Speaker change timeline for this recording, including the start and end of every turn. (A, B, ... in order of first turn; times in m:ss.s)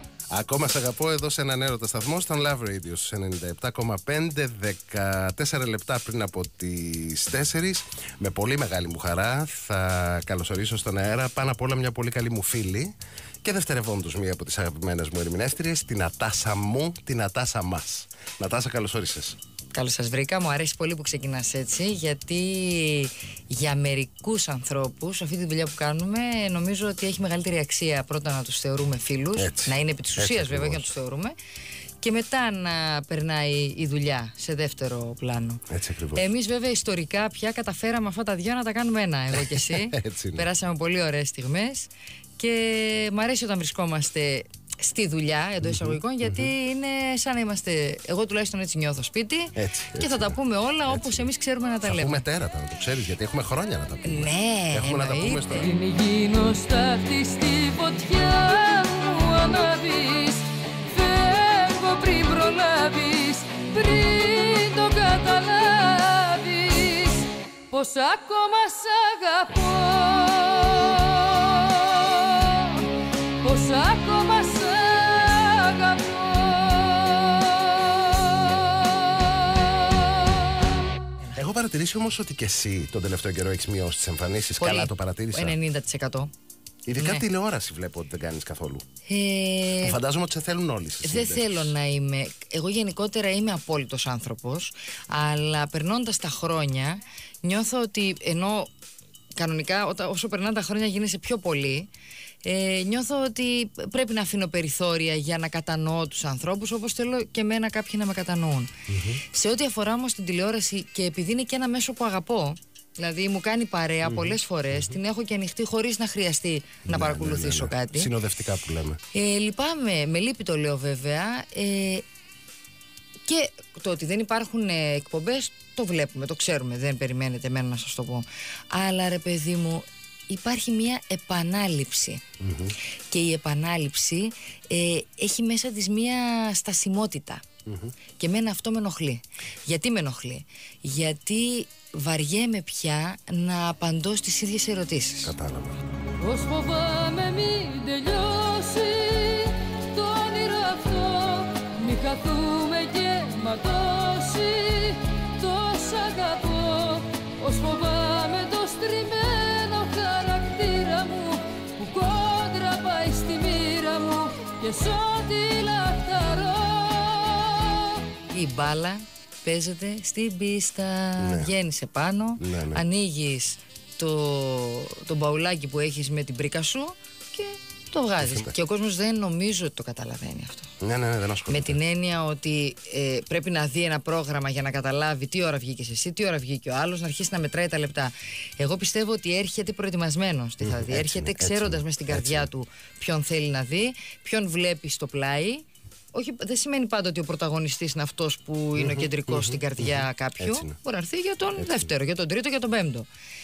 0:00.3-0:19.4 A
0:19.7-0:31.4 B
0:29.4-0:30.9 A
0:32.0-0:52.3 B
0:35.7-0:36.2 A
0:39.3-0:40.5 A
0:45.6-0:46.5 A
0:49.6-0:50.4 A
0:50.9-0:51.3 A
0:51.8-0:55.7 A
0:54.0-0:55.7 B
0:55.6-1:12.9 C
1:13.4-1:20.5 C
1:21.3-1:25.6 A
1:24.6-1:26.3 B
1:26.9-1:28.8 A
1:27.0-1:27.3 B
1:29.1-1:30.0 B
1:29.8-1:31.7 A
1:31.0-1:38.7 B
1:39.4-1:41.9 B
1:42.4-1:48.7 B
1:48.9-1:49.2 A
1:49.2-1:58.1 B
1:54.0-1:55.0 A
1:56.8-1:59.0 A
1:59.1-2:02.0 B
2:03.3-2:12.2 B
2:12.4-2:12.8 A
2:13.1-2:17.4 B
2:17.7-2:17.9 A
2:18.2-2:25.4 B
2:25.2-2:25.9 A
2:26.2-2:48.0 C
2:48.3-3:00.7 B
2:51.2-2:51.5 A
2:52.4-2:52.8 A
2:58.2-2:58.5 A
3:00.8-3:01.8 A
3:01.5-3:23.1 B
3:10.6-3:12.5 A
3:18.8-3:20.8 A
3:21.6-3:21.9 A